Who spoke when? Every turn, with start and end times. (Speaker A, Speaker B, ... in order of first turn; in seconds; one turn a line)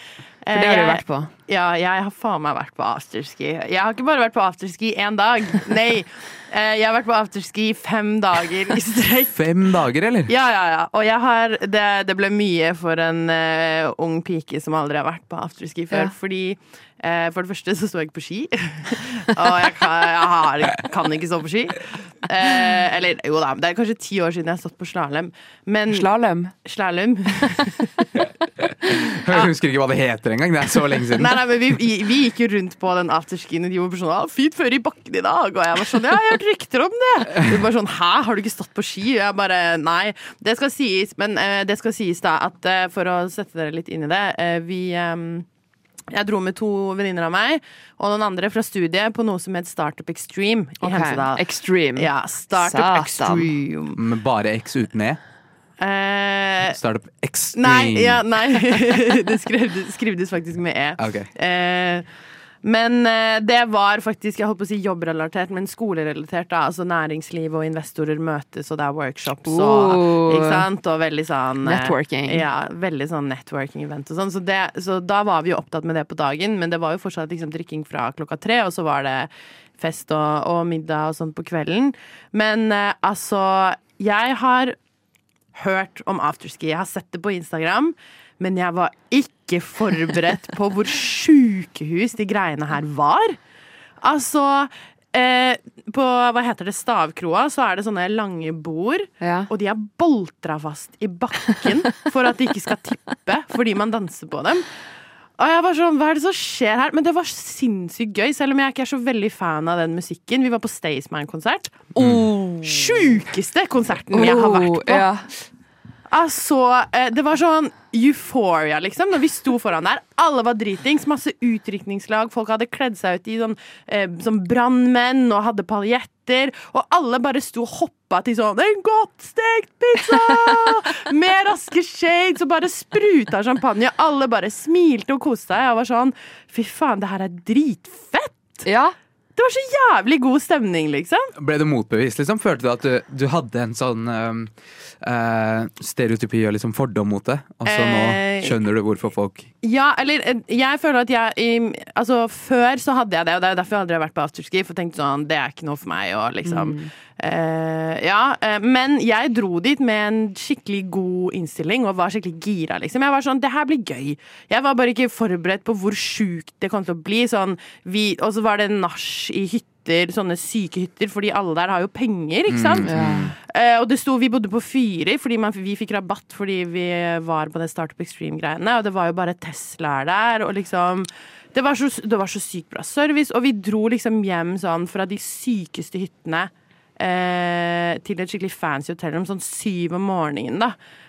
Speaker A: 0.4-9.5
Speaker B: 0.5-1.3
Speaker C: 9.3-10.3
Speaker A: 10.3-26.1
Speaker B: 25.9-26.5
Speaker A: 26.6-28.0
Speaker C: 28.2-31.4
Speaker A: 31.1-45.5
Speaker A: 46.1-51.4
Speaker B: 50.8-53.5
Speaker A: 52.0-54.0
Speaker C: 54.0-55.2
Speaker A: 55.8-56.8
Speaker C: 56.7-58.2
Speaker A: 57.5-62.0
Speaker C: 61.0-61.3
Speaker A: 62.6-84.8
Speaker B: 69.5-70.6
Speaker B: 71.6-72.4
Speaker A: 85.5-93.4
Speaker A: 94.0-104.7
Speaker B: 99.2-99.5
Speaker A: 105.4-115.1
Speaker B: 114.1-115.3
Speaker A: 116.1-138.6
Speaker B: 138.6-138.9
Speaker A: 139.3-141.3
Speaker C: 141.3-149.5
Speaker A: 147.7-148.6
Speaker A: 149.6-190.7
Speaker B: 156.4-156.9
Speaker C: 172.5-173.3
Speaker B: 172.8-173.3